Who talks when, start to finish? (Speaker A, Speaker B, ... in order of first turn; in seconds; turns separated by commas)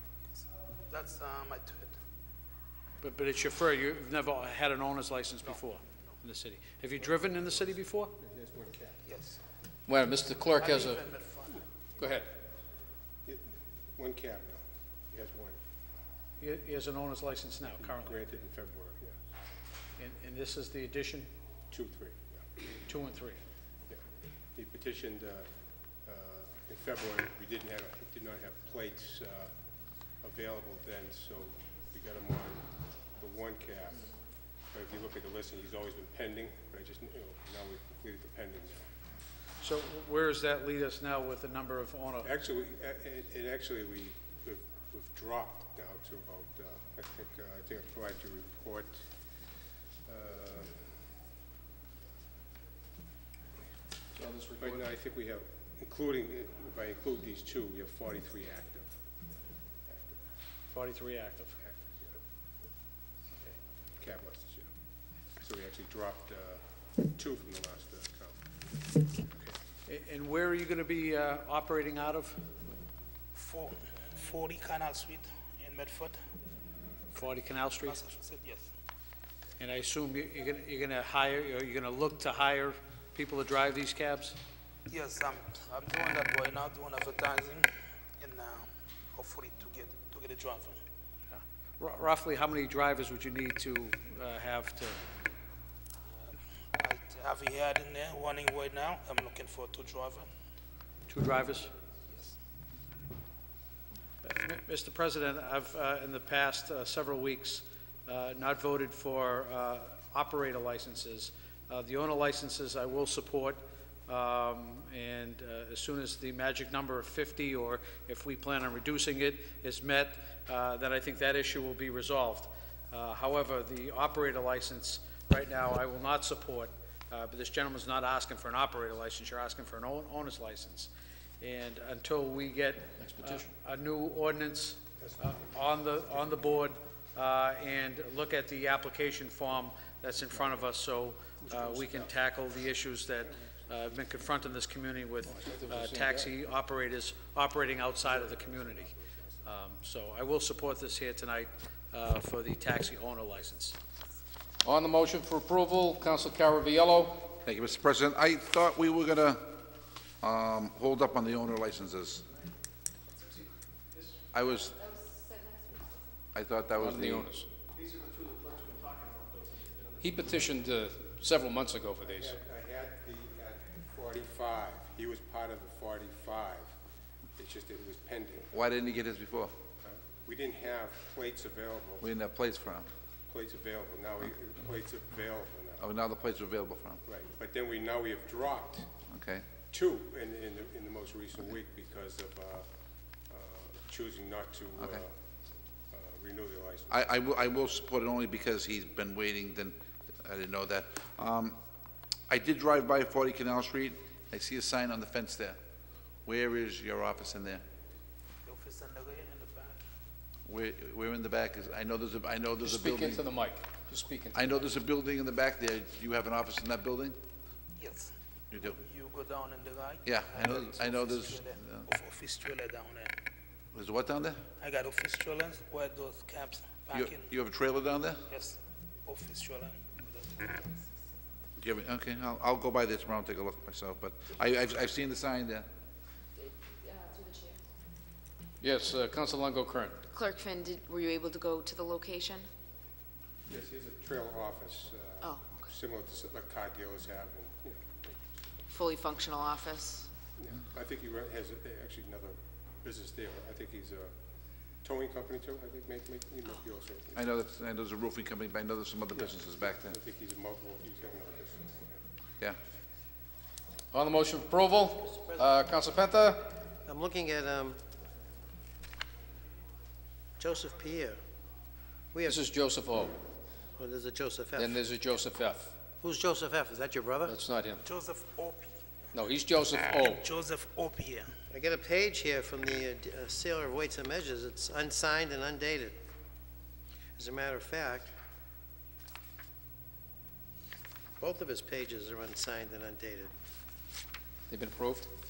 Speaker A: 0.9-1.9, Speaker B: 3.0-8.1, Speaker C: 8.2-9.0, Speaker A: 9.1-9.4, Speaker D: 9.9-11.0, Speaker A: 10.6-11.7, Speaker D: 12.0-12.3, Speaker C: 13.3-15.6, Speaker B: 16.4-18.2, Speaker C: 17.7-19.1, Speaker B: 20.0-21.3, Speaker C: 21.7-22.4, Speaker B: 22.9-23.4, Speaker C: 24.6-25.5, Speaker C: 26.1-29.5, Speaker C: 30.2-32.7, Speaker C: 33.2-34.1, Speaker C: 34.7-38.9, Speaker B: 39.6-42.3, Speaker C: 42.2-49.0, Speaker C: 50.1-50.8, Speaker D: 54.1-54.8, Speaker C: 54.6-58.9, Speaker C: 59.9-60.2, Speaker B: 60.7-61.6, Speaker C: 61.6-62.2, Speaker C: 64.0-64.7, Speaker C: 65.4-68.4, Speaker B: 69.9-72.4, Speaker A: 73.3-76.2, Speaker B: 77.1-78.0, Speaker A: 77.8-78.7, Speaker B: 79.6-84.4, Speaker A: 84.9-90.8, Speaker B: 91.3-95.0, Speaker A: 96.7-100.3, Speaker B: 101.1-101.7, Speaker B: 104.2-148.9, Speaker D: 133.0-133.5, Speaker C: 135.0-135.4, Speaker C: 141.5-142.0, Speaker D: 145.3-146.3, Speaker C: 148.1-149.3, Speaker B: 149.4-153.8, Speaker D: 154.6-157.3, Speaker E: 157.4-159.6, Speaker E: 160.2-162.2, Speaker E: 164.3-164.8, Speaker F: 164.8-166.2, Speaker E: 166.3-167.3, Speaker D: 166.8-167.5, Speaker C: 167.8-169.8, Speaker D: 170.0-172.3, Speaker C: 172.0-176.7, Speaker C: 177.4-178.5, Speaker E: 178.5-179.5, Speaker C: 179.8-182.1, Speaker E: 182.0-182.9, Speaker C: 183.3-185.9, Speaker E: 185.8-187.0, Speaker C: 187.1-188.9, Speaker E: 189.1-189.5, Speaker C: 189.7-192.7, Speaker C: 193.3-195.1, Speaker C: 195.9-197.0, Speaker E: 196.9-201.6, Speaker E: 202.3-205.6, Speaker E: 206.3-207.6, Speaker A: 208.5-209.8, Speaker E: 210.5-213.3, Speaker D: 212.6-214.7, Speaker E: 214.3-217.2, Speaker A: 217.8-218.1, Speaker E: 218.5-218.8, Speaker A: 218.7-223.1, Speaker E: 220.1-221.9, Speaker E: 223.7-224.4, Speaker A: 224.6-227.3, Speaker E: 226.9-228.2, Speaker A: 228.3-230.7, Speaker E: 231.6-235.7, Speaker F: 236.8-237.6, Speaker D: 238.6-240.1, Speaker F: 240.1-242.5, Speaker C: 243.5-248.6, Speaker F: 245.2-245.7, Speaker F: 248.7-250.1, Speaker C: 250.4-254.1, Speaker C: 254.8-257.2, Speaker E: 257.1-260.0, Speaker C: 259.1-262.0, Speaker D: 263.9-266.6, Speaker G: 266.8-267.8, Speaker G: 270.4-271.2, Speaker G: 272.1-272.5, Speaker D: 272.2-273.2, Speaker G: 273.8-274.8, Speaker D: 274.6-275.8, Speaker G: 276.0-277.4, Speaker D: 277.2-277.9, Speaker A: 277.8-278.8, Speaker D: 279.1-280.3, Speaker A: 279.9-281.3, Speaker G: 281.5-286.0, Speaker G: 287.2-288.1, Speaker G: 291.2-293.3, Speaker D: 294.5-295.1